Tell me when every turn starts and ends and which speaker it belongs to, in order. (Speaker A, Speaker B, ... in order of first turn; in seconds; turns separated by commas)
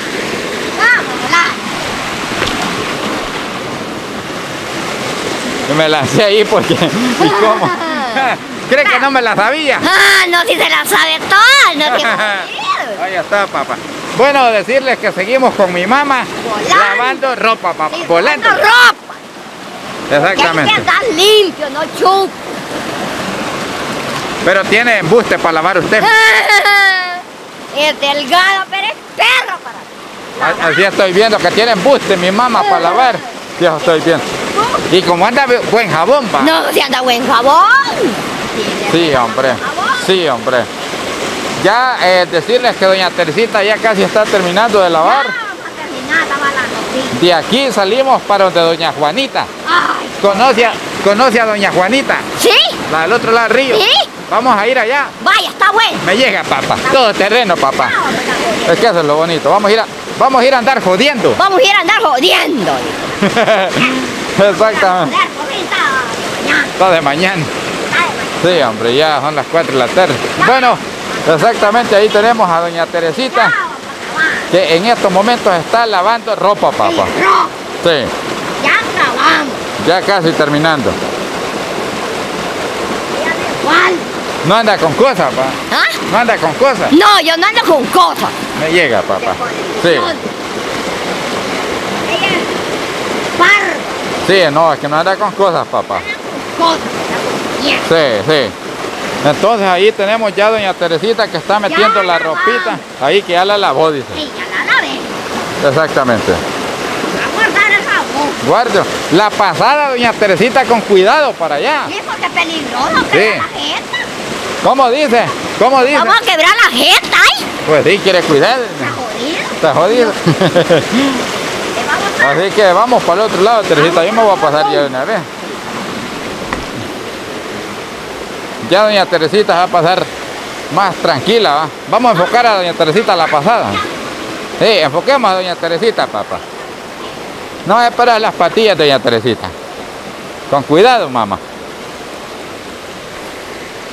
Speaker A: 0.7-1.6, Speaker B: 5.7-9.9, Speaker A: 7.2-8.3, Speaker A: 8.8-9.1, Speaker A: 9.8-13.0, Speaker B: 11.8-18.7, Speaker A: 16.4-17.2, Speaker A: 17.9-19.2, Speaker B: 20.1-20.9, Speaker A: 20.1-22.3, Speaker B: 24.4-26.1, Speaker A: 26.0-30.9, Speaker B: 30.4-34.3, Speaker A: 32.5-33.3, Speaker A: 33.8-34.9, Speaker B: 34.9-36.5, Speaker A: 36.4-40.1, Speaker B: 38.9-40.7, Speaker B: 41.6-45.4, Speaker A: 45.0-47.2, Speaker B: 47.1-49.5, Speaker A: 49.6-50.8, Speaker B: 50.2-52.3, Speaker A: 52.4-52.8, Speaker B: 52.9-55.1, Speaker A: 53.7-54.1, Speaker A: 55.2-56.0, Speaker B: 56.0-58.0, Speaker A: 56.8-57.1, Speaker A: 57.7-58.9, Speaker B: 58.6-61.4, Speaker A: 61.4-63.1, Speaker B: 63.2-65.1, Speaker A: 64.3-66.8, Speaker B: 66.8-67.5, Speaker A: 67.9-68.8, Speaker B: 68.4-73.5, Speaker A: 70.3-72.3, Speaker A: 73.1-74.5, Speaker B: 74.5-77.1, Speaker A: 76.8-77.5, Speaker B: 77.8-78.1, Speaker A: 78.6-79.6, Speaker B: 79.8-81.0, Speaker A: 83.1-84.1, Speaker B: 84.4-85.6, Speaker A: 85.7-86.0, Speaker B: 86.1-86.9, Speaker A: 86.9-88.3, Speaker B: 88.6-90.2, Speaker A: 89.2-90.3, Speaker A: 92.0-92.5, Speaker A: 93.3-94.0, Speaker B: 94.2-96.0, Speaker A: 95.9-97.9, Speaker B: 97.8-98.5, Speaker B: 99.2-104.2, Speaker A: 101.6-102.8, Speaker A: 104.1-105.1, Speaker B: 105.6-106.4, Speaker A: 107.1-108.4, Speaker B: 108.4-111.9, Speaker A: 111.8-114.1, Speaker B: 113.1-113.5, Speaker B: 114.6-116.2, Speaker A: 115.9-117.5, Speaker B: 117.6-118.9, Speaker A: 118.8-120.2, Speaker B: 119.6-121.2, Speaker A: 121.7-122.5, Speaker B: 122.2-125.3, Speaker A: 123.7-125.6, Speaker B: 128.6-130.1, Speaker B: 130.7-133.8, Speaker B: 134.6-136.4, Speaker B: 137.6-139.5, Speaker B: 140.5-141.4